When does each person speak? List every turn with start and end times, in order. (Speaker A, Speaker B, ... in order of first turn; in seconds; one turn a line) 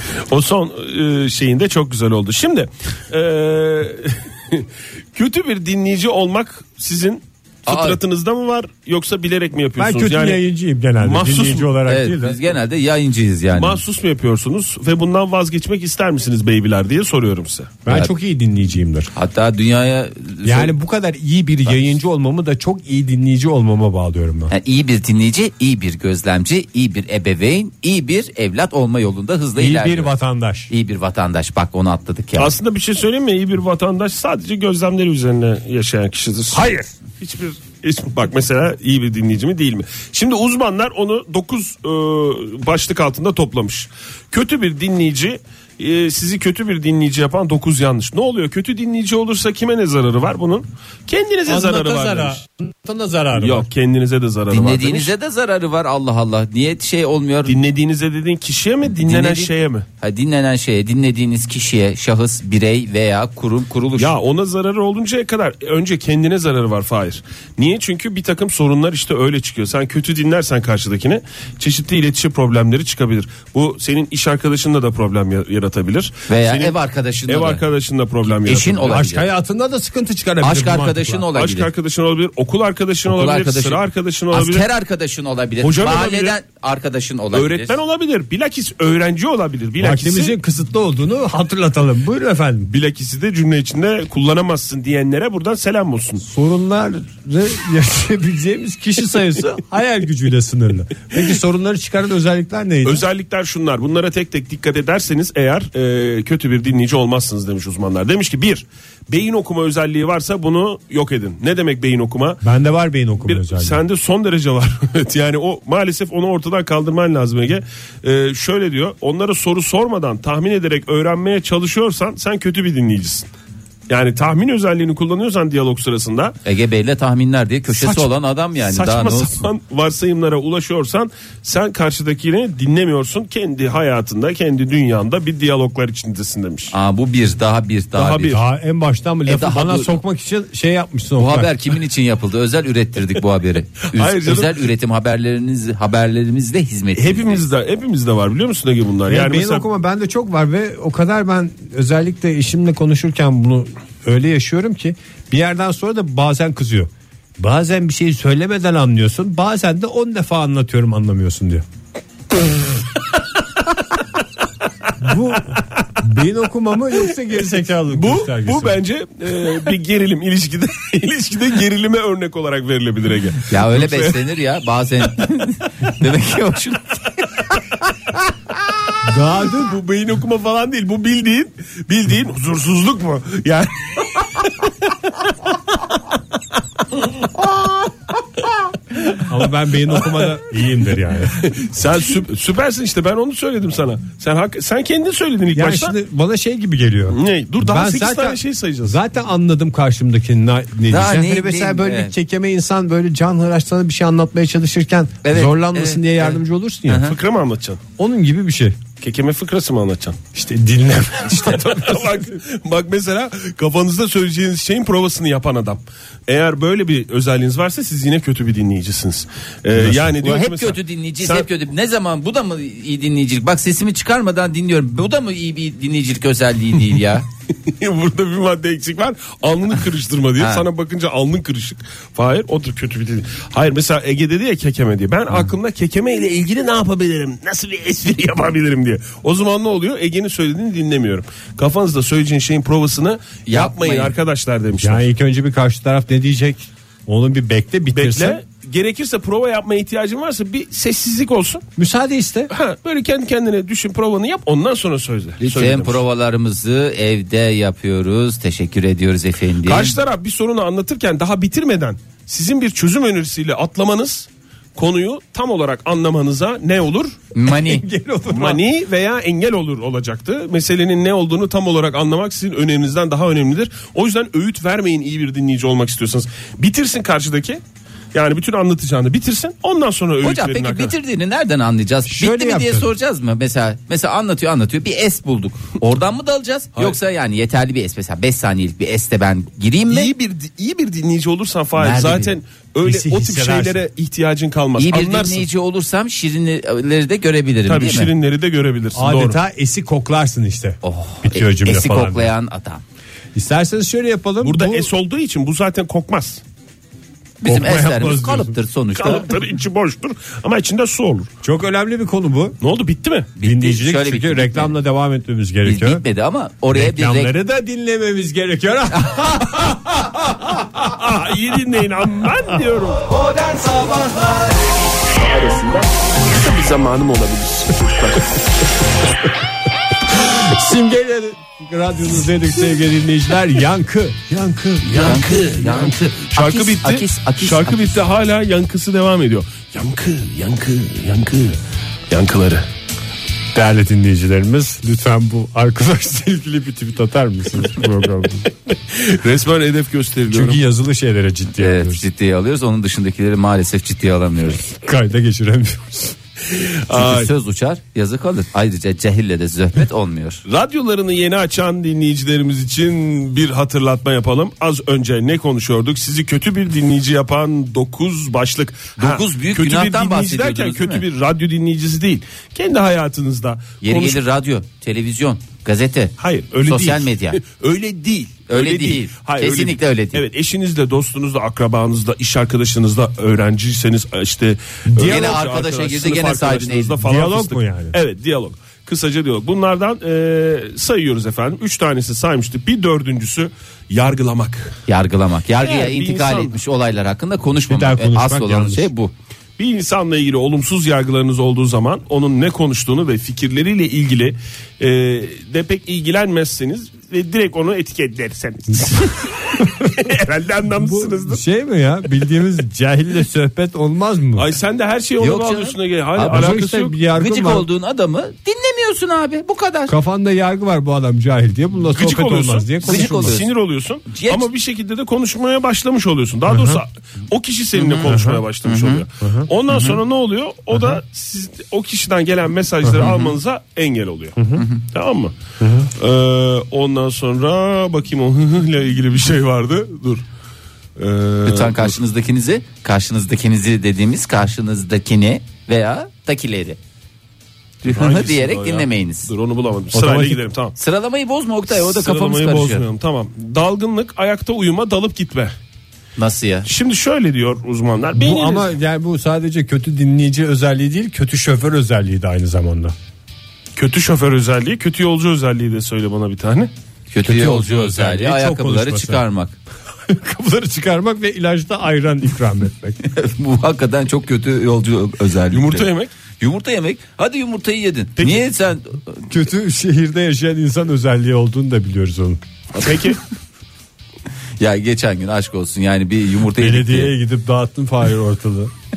Speaker A: 0.3-10.4
Speaker B: 7.7-8.0
Speaker C: 9.8-12.4
Speaker A: 11.0-11.7
Speaker B: 11.8-13.8
Speaker A: 13.5-17.7
Speaker C: 17.9-19.1
Speaker B: 19.1-20.7
Speaker C: 20.4-24.5
Speaker B: 24.5-30.1
Speaker C: 29.6-30.7
Speaker B: 30.7-32.5
Speaker A: 32.4-52.4
Speaker C: 36.5-36.9
Speaker C: 51.5-53.7
Speaker A: 53.4-55.1
Speaker B: 54.5-57.5
Speaker A: 57.5-59.8
Speaker B: 59.0-64.1
Speaker A: 64.0-76.8
Speaker B: 76.3-77.6
Speaker A: 77.3-79.0
Speaker B: 78.4-79.3
Speaker C: 78.8-81.2
Speaker B: 80.4-81.7
Speaker A: 81.3-84.7
Speaker B: 83.0-87.7
Speaker A: 85.6-86.3
Speaker A: 87.3-90.3
Speaker C: 89.8-92.7
Speaker A: 92.7-96.2
Speaker C: 96.2-103.0
Speaker A: 102.8-112.4
Speaker C: 112.4-113.8
Speaker A: 113.2-123.3
Speaker A: 123.9-126.3
Speaker B: 126.4-129.4
Speaker A: 127.7-128.1
Speaker A: 128.6-136.7
Speaker B: 136.7-138.4
Speaker A: 137.9-138.4
Speaker C: 138.3-141.5
Speaker B: 139.3-140.0
Speaker B: 141.2-147.4
Speaker A: 143.9-144.6
Speaker A: 146.9-149.6
Speaker C: 149.1-161.6
Speaker C: 165.0-168.8
Speaker A: 167.9-174.3
Speaker B: 173.5-177.2
Speaker A: 178.5-179.0
Speaker C: 179.0-179.8
Speaker A: 179.5-184.9
Speaker A: 187.2-187.7
Speaker A: 188.9-189.2
Speaker C: 189.2-191.4
Speaker A: 191.4-195.9
Speaker C: 195.5-207.1
Speaker A: 197.1-199.0
Speaker B: 200.9-202.1
Speaker B: 205.2-207.1
Speaker A: 207.0-207.8
Speaker C: 208.0-208.8
Speaker A: 209.0-210.2
Speaker C: 210.3-212.4
Speaker A: 211.4-221.5
Speaker C: 219.8-220.0
Speaker B: 220.2-227.2
Speaker A: 227.7-245.1
Speaker B: 230.4-230.7
Speaker B: 243.4-244.1
Speaker C: 244.8-248.4
Speaker A: 247.9-251.6
Speaker C: 251.8-252.5
Speaker A: 252.5-256.0
Speaker B: 255.4-259.9
Speaker A: 259.6-267.1
Speaker B: 267.3-267.9
Speaker C: 267.4-268.6
Speaker A: 268.3-277.6
Speaker A: 278.1-280.9
Speaker B: 280.2-290.1
Speaker C: 282.1-282.9
Speaker A: 289.9-295.5
Speaker B: 291.8-292.3
Speaker C: 292.8-293.8
Speaker B: 294.8-298.1
Speaker A: 297.6-299.4
Speaker C: 298.9-302.3
Speaker B: 300.8-302.8
Speaker C: 303.3-304.9
Speaker A: 304.4-306.4
Speaker B: 307.4-309.3
Speaker C: 307.4-308.6
Speaker A: 308.9-311.3
Speaker C: 311.4-312.6
Speaker A: 312.6-313.3
Speaker B: 313.4-314.7
Speaker C: 313.4-316.0
Speaker B: 315.6-317.3
Speaker C: 316.7-321.1
Speaker A: 320.9-323.1
Speaker A: 325.1-328.4
Speaker C: 330.1-335.1
Speaker A: 334.8-341.6
Speaker B: 334.9-338.0
Speaker A: 342.1-342.6
Speaker C: 343.5-348.5
Speaker A: 348.7-350.6
Speaker C: 350.3-352.0
Speaker B: 351.6-354.6
Speaker C: 354.6-356.1
Speaker A: 356.5-357.3
Speaker B: 356.9-360.4
Speaker A: 360.5-374.2
Speaker B: 369.0-371.0
Speaker B: 373.8-376.1
Speaker A: 376.2-394.8
Speaker B: 376.6-377.4
Speaker B: 378.5-380.2
Speaker B: 384.9-387.0
Speaker C: 387.0-387.9
Speaker B: 394.9-399.1
Speaker A: 395.6-396.6
Speaker C: 397.7-398.9
Speaker A: 399.6-411.4
Speaker C: 409.6-410.0
Speaker C: 410.8-414.5
Speaker A: 414.4-416.9
Speaker B: 415.2-416.6
Speaker C: 416.3-417.7
Speaker B: 417.1-419.9
Speaker C: 419.9-423.4
Speaker A: 421.9-435.3
Speaker B: 422.9-423.5
Speaker B: 424.1-424.5
Speaker C: 426.5-426.8
Speaker B: 427.8-429.0
Speaker C: 428.1-428.4
Speaker C: 429.2-429.5
Speaker B: 429.7-430.0
Speaker C: 430.7-431.0
Speaker C: 432.8-433.1
Speaker B: 433.0-433.3
Speaker C: 434.4-434.6
Speaker B: 434.5-434.8
Speaker C: 435.6-435.9
Speaker A: 435.9-440.2
Speaker A: 441.0-442.0
Speaker B: 441.4-446.8
Speaker A: 447.8-450.7
Speaker B: 447.8-449.3
Speaker C: 449.9-450.4
Speaker B: 450.8-452.8
Speaker A: 451.7-455.5
Speaker B: 456.2-456.7
Speaker A: 456.6-458.7
Speaker C: 458.1-462.9
Speaker A: 463.8-466.7
Speaker B: 467.1-469.6
Speaker C: 467.2-469.2
Speaker C: 470.1-473.0
Speaker B: 473.0-479.2
Speaker A: 475.5-476.1
Speaker A: 478.2-478.5
Speaker C: 479.3-482.4
Speaker A: 482.7-483.2
Speaker B: 484.6-487.1
Speaker C: 486.6-488.7